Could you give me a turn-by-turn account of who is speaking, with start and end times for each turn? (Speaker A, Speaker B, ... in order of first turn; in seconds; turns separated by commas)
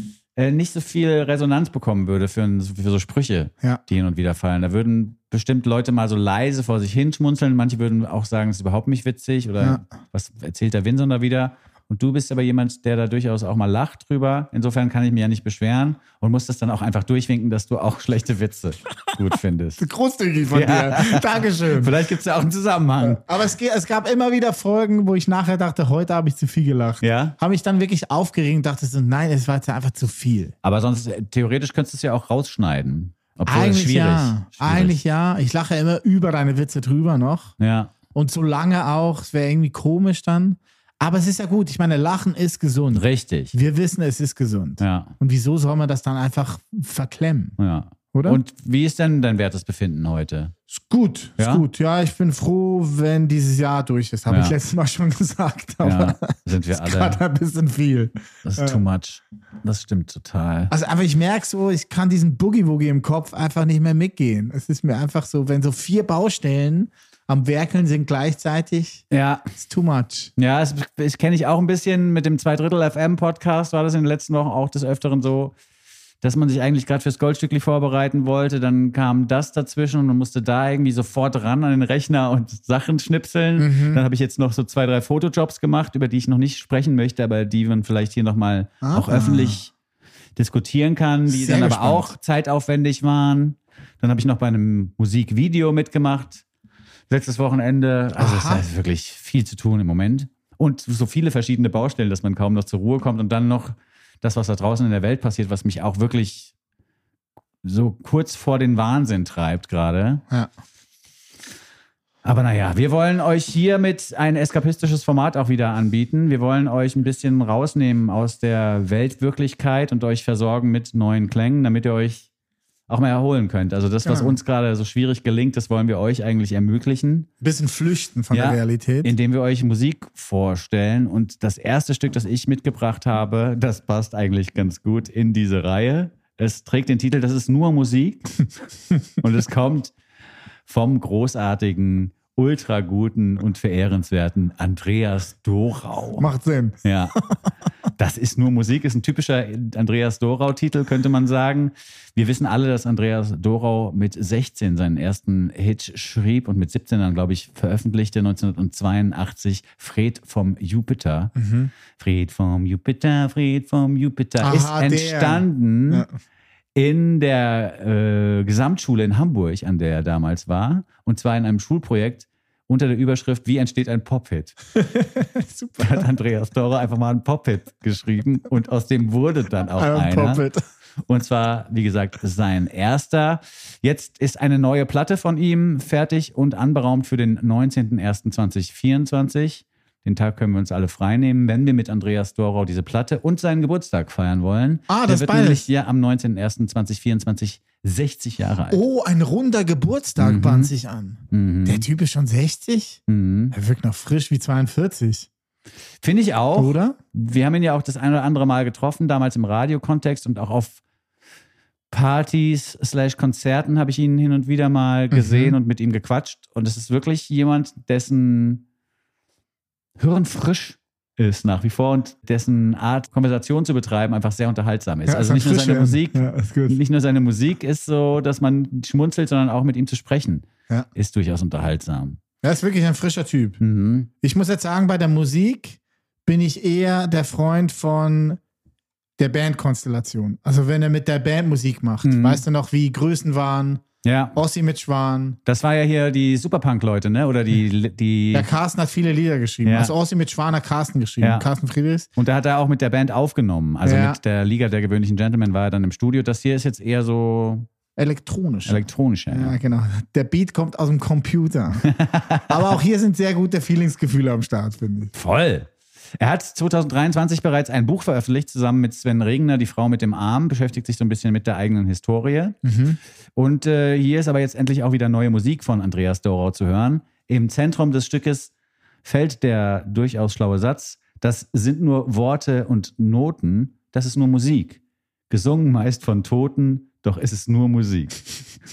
Speaker A: 0.4-19.8, Speaker B: 19.8-21.9, Speaker A: 20.5-23.2, Speaker B: 23.0-30.5, Speaker A: 27.0-27.4, Speaker A: 30.6-35.0, Speaker B: 33.5-37.6, Speaker A: 37.6-37.9, Speaker B: 38.1-47.6, Speaker A: 42.9-43.5, Speaker A: 44.8-45.1, Speaker A: 47.6-50.5, Speaker B: 48.1-48.4, Speaker B: 50.7-58.8, Speaker A: 51.4-51.6, Speaker A: 54.3-54.6, Speaker A: 55.8-57.2, Speaker A: 58.4-60.7, Speaker B: 60.7-69.0, Speaker A: 69.1-69.5, Speaker B: 69.6-70.3, Speaker A: 70.4-75.5, Speaker A: 76.2-89.7, Speaker B: 83.6-84.0, Speaker B: 88.8-89.6, Speaker A: 90.4-96.4, Speaker B: 91.3-92.2, Speaker A: 97.1-106.5, Speaker B: 98.2-98.7, Speaker A: 107.6-110.2, Speaker A: 112.2-122.3, Speaker A: 122.9-127.3, Speaker B: 124.0-124.4, Speaker B: 127.4-129.1, Speaker A: 128.3-138.5, Speaker A: 139.2-139.9, Speaker A: 140.7-146.3, Speaker B: 146.2-147.4, Speaker A: 146.8-147.2, Speaker A: 148.0-161.3, Speaker B: 161.4-161.7, Speaker A: 162.0-166.1, Speaker B: 164.4-166.1, Speaker A: 166.8-174.6, Speaker B: 174.8-176.1, Speaker A: 175.8-180.4, Speaker B: 179.8-180.6, Speaker A: 181.1-198.8, Speaker B: 194.9-195.7, Speaker B: 198.7-203.0, Speaker A: 200.2-200.7, Speaker A: 201.3-201.8, Speaker A: 203.1-203.6, Speaker B: 203.5-205.3, Speaker A: 206.0-210.8, Speaker B: 206.6-207.0, Speaker A: 211.9-218.6, Speaker B: 215.1-215.6, Speaker A: 220.0-232.2, Speaker B: 225.1-226.8, Speaker B: 232.4-233.6, Speaker A: 233.6-234.1, Speaker B: 234.2-238.4, Speaker B: 239.2-243.8, Speaker A: 242.0-242.4, Speaker A: 244.0-244.4, Speaker B: 244.3-245.4, Speaker A: 245.5-248.5, Speaker B: 248.3-252.1, Speaker A: 249.7-249.9, Speaker A: 251.2-251.5, Speaker A: 252.2-257.7, Speaker B: 253.8-254.2, Speaker B: 258.0-261.9, Speaker A: 258.7-259.6, Speaker A: 261.8-262.5, Speaker B: 262.4-265.1, Speaker A: 265.1-272.6, Speaker B: 272.6-273.0, Speaker A: 273.4-278.5, Speaker A: 279.0-288.2